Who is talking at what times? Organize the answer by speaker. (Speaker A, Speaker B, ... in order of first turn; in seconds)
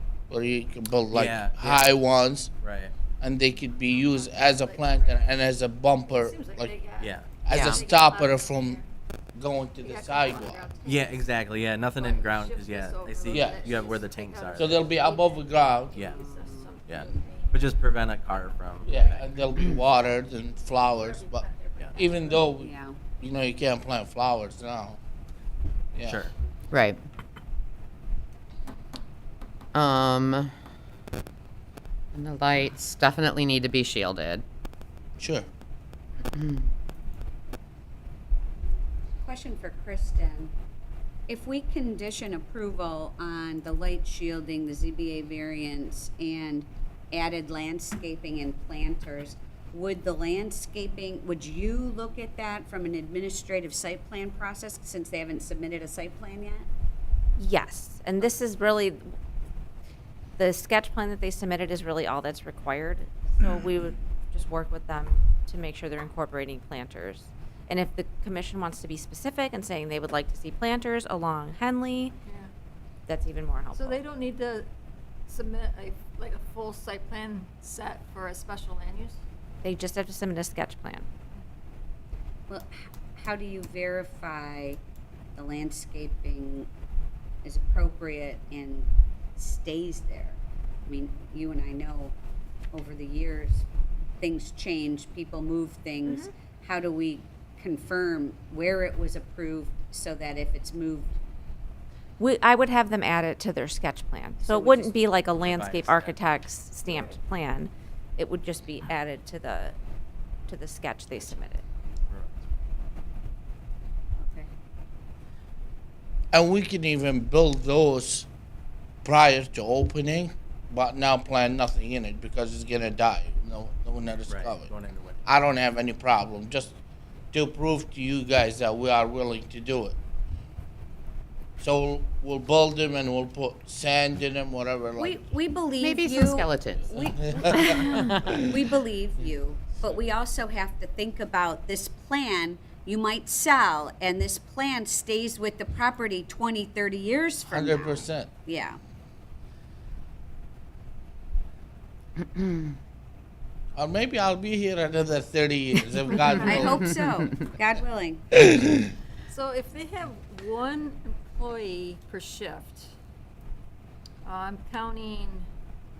Speaker A: 0.3-2.5, 3.2-6.7, 7.4-8.8, 9.3-10.7, 13.3-13.6, 14.6-15.9, 18.9-25.0, 25.9-26.3, 35.2-35.5, 116.3-118.3, 119.0-124.7, 125.2-126.8, 127.3-130.0, 131.6-135.2, 137.3-138.4, 147.4-148.3, 153.8-156.9, 158.3-158.9
Speaker B: 1.1-1.9, 2.6-2.9, 7.0-7.4, 10.8-14.8, 15.9-16.2, 16.9-19.3, 21.8-22.3, 26.0-26.3, 105.3-106.2, 112.1-112.4, 124.3-125.2
Speaker C: 3.9-5.4, 6.1-8.9, 9.8-11.2, 11.9-17.8, 20.7-22.4, 73.7-74.7, 75.3-79.2, 159.3-162.9, 164.2-165.5
Speaker D: 7.5-7.8, 26.7-27.0, 29.7-30.5, 32.1-34.4, 36.3-36.6, 135.8-137.0, 137.5-138.3, 152.2-152.7
Speaker E: 16.0-16.7, 22.5-23.0, 39.2-40.5, 41.3-56.7, 82.5-84.8, 85.3-86.7, 87.4-92.1, 92.7-93.7, 94.2-101.2, 104.4-104.9, 114.2-114.5, 135.0-148.8, 156.4-158.3
Speaker F: 57.4-59.1, 60.4-72.1, 73.1-74.0, 79.6-81.1, 102.2-109.8, 110.5-111.6